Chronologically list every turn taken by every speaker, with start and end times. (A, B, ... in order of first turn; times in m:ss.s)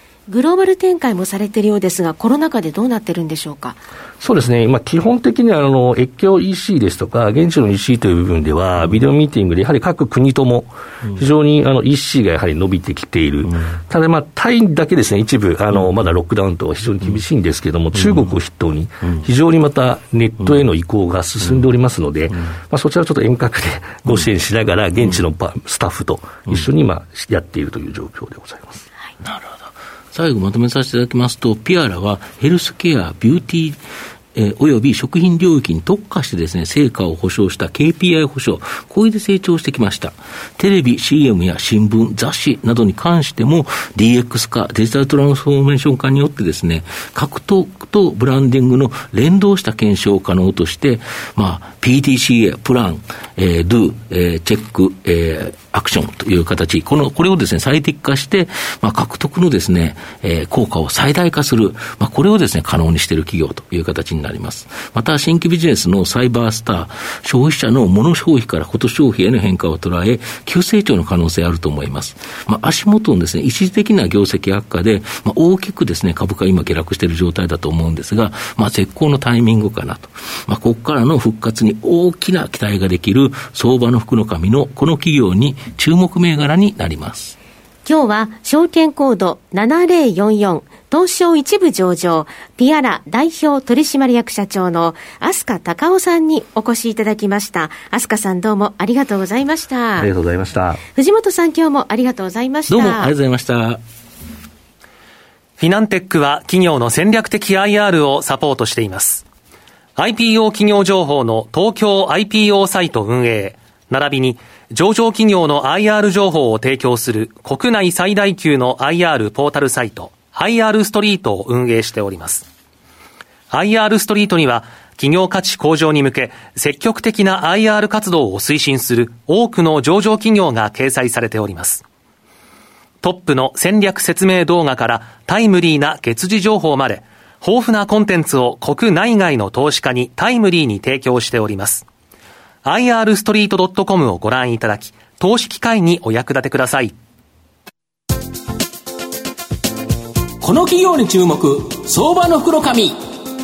0:00.3-0:03.8 A
0:04.2-0:28.8 B
0:29.2-0:33.8 C
0:34.3-1:27.4 C
1:27.8-1:40.1 A
1:40.0-1:40.8 B
1:40.9-1:43.1 A
1:42.7-1:43.8 C
1:45.6-1:49.2 D
1:50.0-2:02.4 D
2:03.5-2:11.8 D
2:13.0-2:21.8 D
2:22.6-2:26.9 D
2:30.4-2:32.8 E